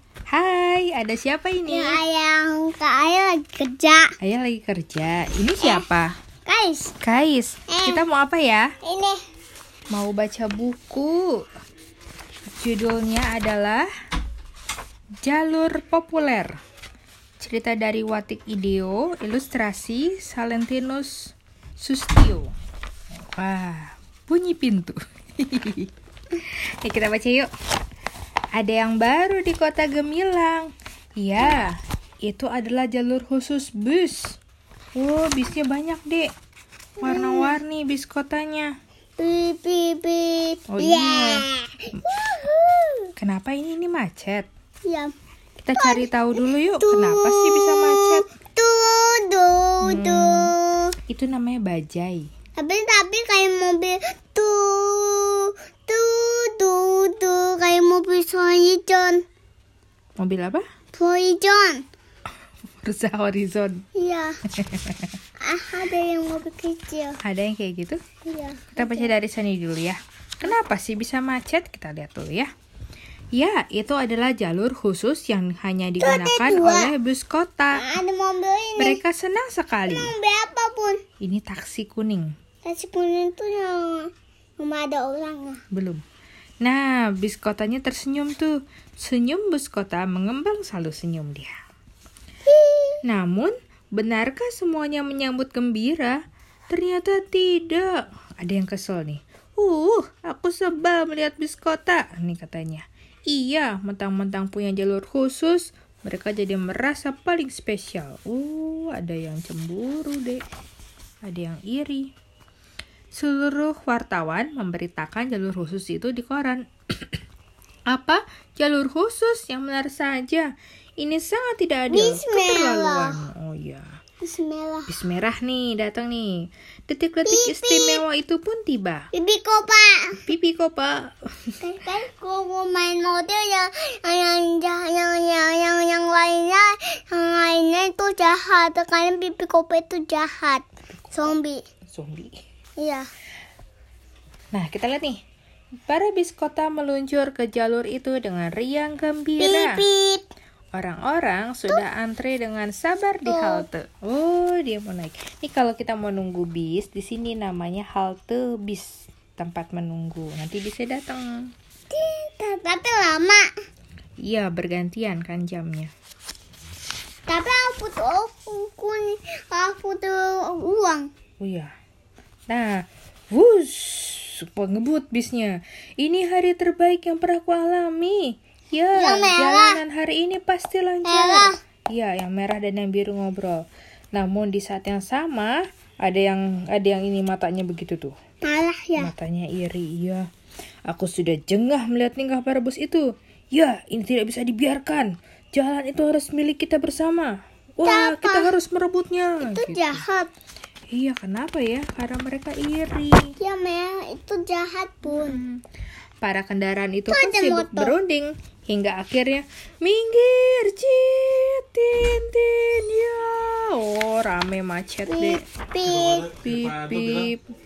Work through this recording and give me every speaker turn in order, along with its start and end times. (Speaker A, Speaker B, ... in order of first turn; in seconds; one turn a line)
Speaker A: 0.3-2.0
Speaker B: 1.7-4.1
Speaker A: 4.2-6.1
Speaker B: 5.6-5.9
Speaker B: 6.5-6.9
Speaker A: 7.0-8.7
Speaker B: 7.7-8.0
Speaker B: 8.8-9.2
Speaker A: 9.9-11.4
Speaker A: 12.6-13.9
Speaker A: 15.2-16.6
Speaker A: 17.4-22.5
Speaker A: 23.2-27.5
Speaker A: 28.5-34.4
Speaker A: 35.0-36.3
Speaker A: 37.0-38.7
Speaker B: 37.0-37.6
Speaker B: 39.2-43.1
Speaker A: 40.7-42.0
Speaker A: 43.2-44.5
Speaker B: 44.9-45.1
Speaker A: 45.6-48.2
Speaker B: 45.8-50.9
Speaker A: 49.8-50.5
Speaker A: 51.1-52.3
Speaker B: 52.6-59.2
Speaker A: 60.2-60.6
Speaker B: 60.9-61.8
Speaker A: 62.8-63.8
Speaker B: 63.9-64.4
Speaker A: 64.5-65.1
Speaker B: 65.4-67.2
Speaker A: 67.2-68.0
Speaker B: 68.2-69.1
Speaker A: 68.7-72.5
Speaker A: 73.3-77.8
Speaker B: 76.0-76.9
Speaker B: 77.7-79.0
Speaker A: 78.8-80.1
Speaker B: 79.9-81.0
Speaker A: 81.2-82.3
Speaker B: 82.6-85.6
Speaker A: 85.7-86.0
Speaker A: 86.6-91.5
Speaker B: 92.5-93.0
Speaker A: 93.0-96.2
Speaker A: 96.7-110.4
Speaker A: 111.2-112.1
Speaker A: 113.1-117.2
Speaker A: 117.9-120.5
Speaker A: 121.0-123.9
Speaker B: 121.9-123.2
Speaker B: 124.2-124.9
Speaker A: 124.9-129.1
Speaker B: 127.2-128.0
Speaker B: 129.1-130.2
Speaker A: 130.2-131.5
Speaker B: 131.6-141.6
Speaker A: 141.9-142.3
Speaker B: 142.8-143.1
Speaker A: 144.5-145.2
Speaker A: 145.8-149.8
Speaker B: 149.4-150.2
Speaker A: 150.7-161.5
Speaker B: 153.2-153.7
Speaker B: 161.9-163.4
Speaker A: 164.2-165.9
Speaker B: 167.3-171.1
Speaker A: 171.4-171.7
Speaker A: 172.5-188.1
Speaker B: 178.9-179.8
Speaker B: 181.0-181.6
Speaker B: 188.4-189.1
Speaker A: 189.0-190.2
Speaker A: 190.9-200.0
Speaker B: 197.8-198.5
Speaker B: 199.4-200.3
Speaker A: 200.9-203.3
Speaker B: 203.4-205.4
Speaker A: 205.0-205.6
Speaker A: 206.2-215.4
Speaker B: 207.1-208.0
Speaker B: 215.1-216.4
Speaker A: 216.4-217.4